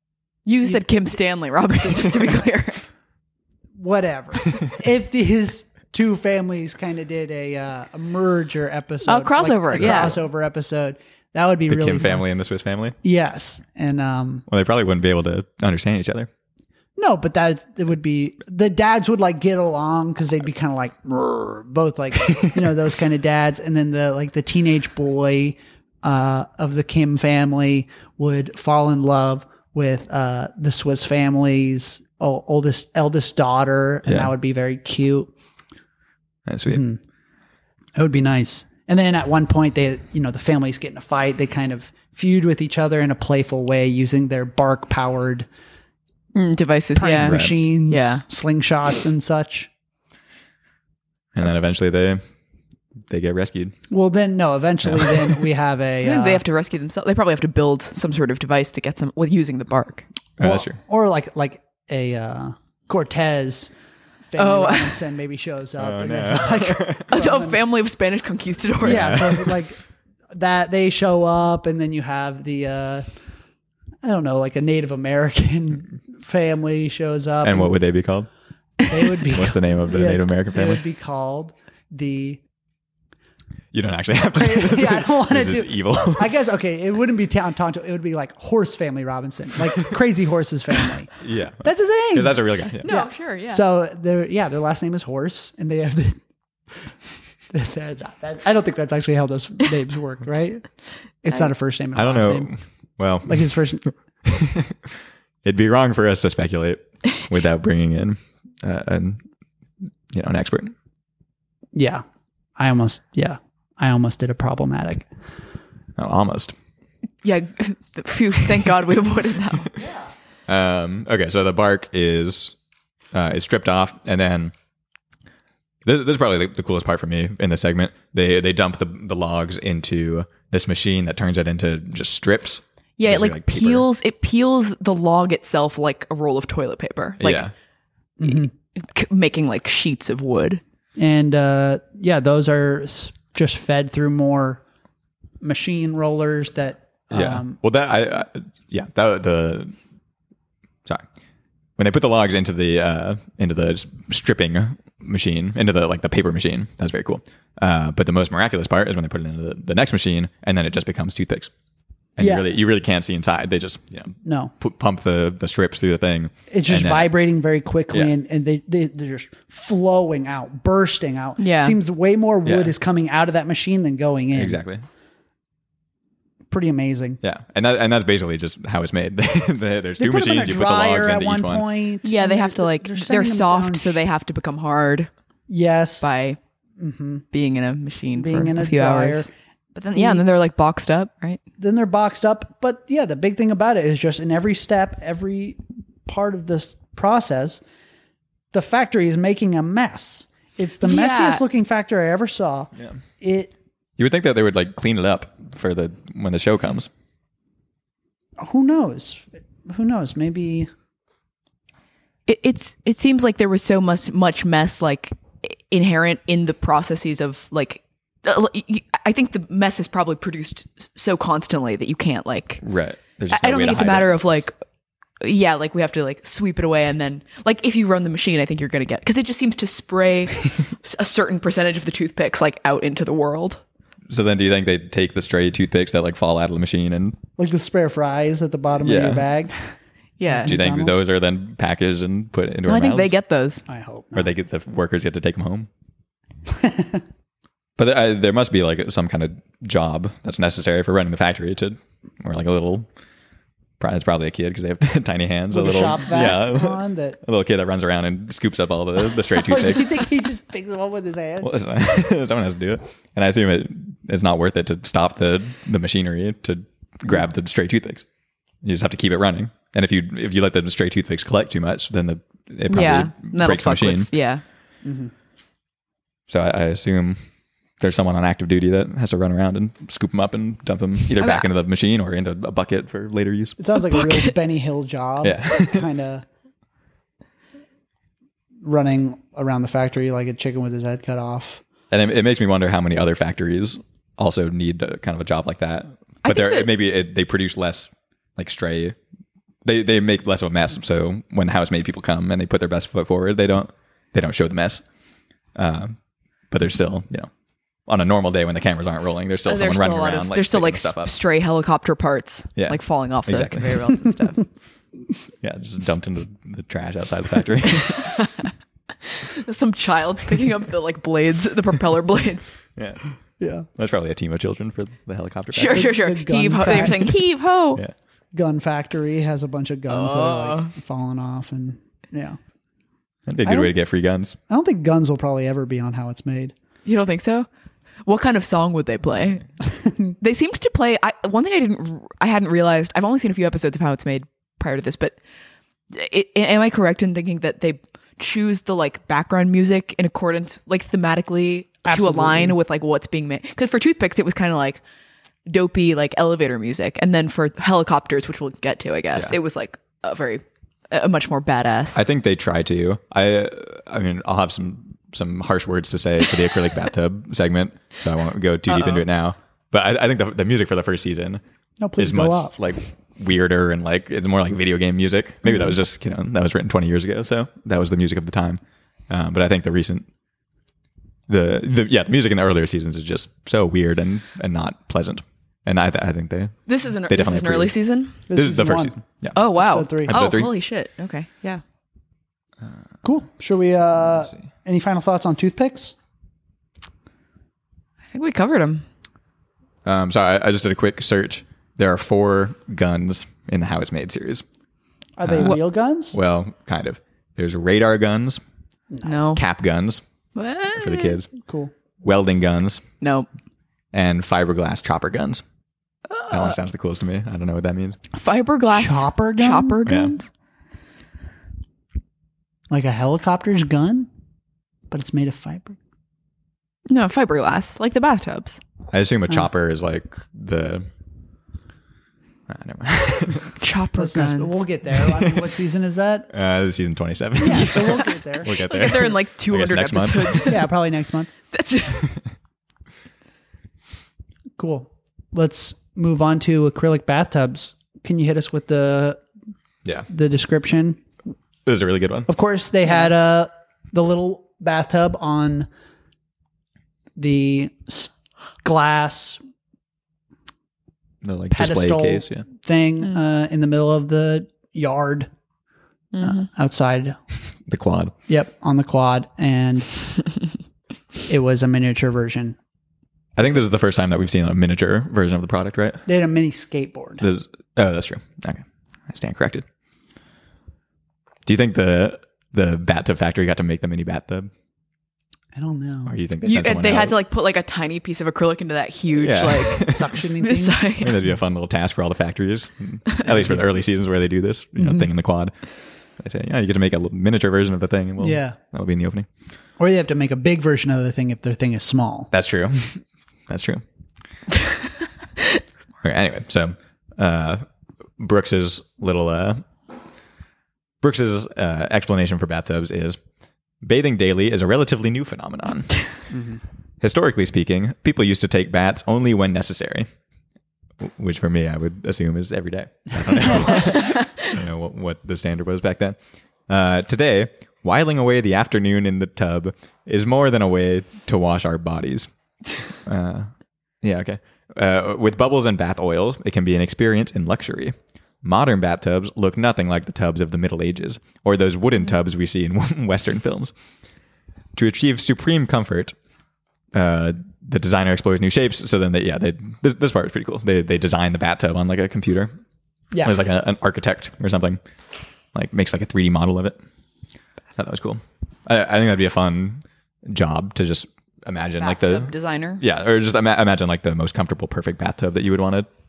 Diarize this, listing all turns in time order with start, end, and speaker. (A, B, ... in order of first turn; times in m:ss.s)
0:00.4-0:02.8 A
0:03.8-0:12.2 B
0:09.0-0:10.2 A
0:09.7-0:10.1 C
0:11.7-0:13.0 C
0:13.0-0:14.4 B
0:14.5-0:16.3 C
0:17.0-0:35.3 B
0:34.0-0:34.3 C
0:36.4-0:36.8 C
0:36.7-0:37.0 B
0:38.0-0:45.5 B
0:46.3-0:48.2 A
0:47.0-0:49.7 B
0:47.2-0:47.5 C
0:51.3-0:52.2 C
0:53.1-0:53.7 C
0:53.9-0:56.4 B
0:54.9-0:55.2 C
0:56.0-1:00.0 A
1:00.4-1:00.8 C
1:00.4-1:03.7 B
1:04.3-1:07.6 B
1:04.4-1:05.0 A
1:05.8-1:07.0 C
1:07.0-1:09.4 A
1:08.8-1:09.6 C
1:08.8-1:09.8 B
1:10.3-1:13.0 B
1:14.0-1:17.8 B
1:17.4-1:18.3 C
1:18.8-1:22.4 B
1:19.2-1:20.8 C
1:23.7-1:26.3 C
1:24.3-1:36.2 B
1:31.2-1:32.9 C
1:32.8-1:33.6 A
1:37.5-1:40.7 B
1:41.2-1:42.5 B
1:41.9-1:43.5 C
1:43.2-1:43.9 B
1:44.2-1:49.2 C
1:50.1-1:50.7 C
1:51.7-1:52.0 B
1:52.6-1:55.1 B
1:56.0-1:56.5 C
1:57.2-1:59.8 A
2:00.5-2:02.6 C
2:03.1-2:04.5 C
2:05.8-2:13.9 C
2:13.0-2:17.5 A
2:17.2-2:17.5 C
2:18.2-2:18.5 B
2:18.3-2:20.6 A
2:21.0-2:24.6 B
2:25.4-2:27.6 B
2:27.1-2:29.7 C
2:31.8-2:41.5 C
2:42.2-2:47.1 C
2:42.2-2:42.4 B
2:44.2-2:44.5 B
2:46.5-2:54.6 B
2:51.4-2:51.8 A
2:52.4-2:52.7 C
2:54.3-2:54.8 C
2:56.5-2:57.2 B
2:57.2-3:01.7 C
3:00.0-3:04.0 B
3:02.0-3:05.1 A
3:05.5-3:06.1 B
3:06.0-3:06.4 A
3:06.8-3:07.2 B
3:07.3-3:11.4 A
3:08.1-3:09.3 B
3:09.9-3:10.2 B
3:11.6-3:17.6 B
3:18.5-3:23.5 B
3:20.8-3:21.4 A
3:24.0-3:26.9 C
3:28.4-3:30.7 B
3:32.3-3:42.6 A
3:42.6-3:44.1 C
3:43.3-3:44.5 A
3:45.2-3:53.6 A
3:54.1-3:57.2 C
3:57.4-3:59.6 B
3:58.8-3:59.3 C
4:00.2-4:00.5 A
4:00.2-4:01.0 B
4:00.4-4:03.1 C
4:02.6-4:03.6 A
4:03.7-4:04.3 B
4:04.1-4:05.7 C
4:06.5-4:07.0 B
4:07.8-4:12.9 C
4:13.8-4:20.0 C
4:15.5-4:17.2 B
4:19.3-4:21.6 B
4:21.4-4:28.0 C
4:28.6-4:34.1 C
4:32.7-4:34.4 A
4:34.8-4:35.1 B
4:36.3-4:37.2 C
4:37.8-4:43.6 C
4:41.2-4:41.4 A
4:43.6-4:46.2 B
4:45.2-4:45.8 C
4:48.6-4:51.6 B
4:51.9-4:59.0 C
4:56.2-4:56.7 A
4:59.6-5:04.8 C
5:05.5-5:06.0 C
5:06.5-5:07.3 C
5:07.9-5:11.1 C
5:09.4-5:14.4 A
5:12.6-5:13.9 C
5:15.4-5:18.3 C
5:19.1-5:22.6 A
5:22.7-5:23.0 C
5:23.4-5:23.7 B
5:23.7-5:25.9 C
5:25.5-5:27.8 A
5:25.7-5:27.2 B
5:28.3-5:32.4 B
5:29.9-5:30.7 A
5:33.3-5:34.4 C
5:33.4-5:33.7 B
5:34.5-5:36.5 B
5:36.8-5:37.5 A
5:38.0-5:39.4 A
5:39.8-5:40.1 B
5:40.2-5:45.2 A
5:45.9-5:54.8 A
5:51.8-5:52.6 B
5:55.5-6:02.0 A
6:01.9-6:11.4 C
6:08.7-6:09.0 A
6:11.8-6:12.6 B
6:12.0-6:20.0 C
6:21.3-6:27.7 C
6:26.7-6:28.2 A
6:28.3-6:30.2 B
6:28.3-6:29.4 C
6:29.3-6:31.6 A
6:30.0-6:30.5 C
6:33.0-6:35.9 B
6:38.1-6:38.8 A
6:39.8-6:44.4 C
6:45.2-6:46.2 B
6:45.2-6:48.4 C
6:49.0-6:49.4 A
6:49.3-6:50.0 C
6:50.3-6:51.2 A
6:50.7-6:51.3 C
6:51.4-6:51.7 B
6:52.0-6:52.8 C
6:53.0-6:53.3 A
6:53.9-6:55.4 C
6:56.1-6:56.6 A
6:56.3-6:58.0 C
6:58.1-7:00.3 A
6:58.7-6:59.8 B
6:59.8-7:00.1 C
7:02.7-7:04.1 B
7:04.9-7:05.8 B
7:06.9-7:08.6 A
7:08.9-7:10.9 C
7:12.5-7:13.5 C
7:13.6-7:14.6 A
7:14.0-7:16.3 B
7:16.3-7:20.4 C
7:17.4-7:18.5 B
7:17.4-7:20.7 A
7:20.4-7:21.3 B
7:21.5-7:22.2 A
7:24.6-7:29.2 B
7:30.1-7:31.0 B
7:31.6-7:32.3 C
7:32.3-7:35.7 B
7:37.2-7:39.4 B
7:41.2-7:42.4 C
7:41.5-7:45.3 B
7:46.2-7:47.2 B
7:47.7-7:48.1 C
7:48.3-7:49.9 B
7:51.3-7:52.6 B
7:53.4-7:56.0 C
7:56.0-7:57.2 B
7:57.2-7:59.6 C
8:01.4-8:04.5 C
8:05.5-8:06.1 B
8:06.0-8:07.2 C
8:06.4-8:11.2 A
8:09.1-8:10.1 C
8:09.7-8:10.8 B
8:11.0-8:15.5 C
8:16.2-8:19.3 C
8:18.2-8:18.6 B
8:19.8-8:22.3 B
8:22.3-8:23.8 C
8:26.0-8:27.7 C
8:28.2-8:29.6 C
8:31.0-8:33.2 C
8:33.8-8:36.0 C
8:36.3-8:36.6 B
8:37.0-8:40.1 C
8:41.0-8:52.3 C
8:53.0-8:53.5 C
8:54.0-9:03.7 C
9:04.7-9:06.1 C
9:06.9-9:12.5 C
9:13.2-9:14.8 C
9:15.5-9:16.8 C
9:17.7-9:25.9 C
9:21.8-9:22.8 A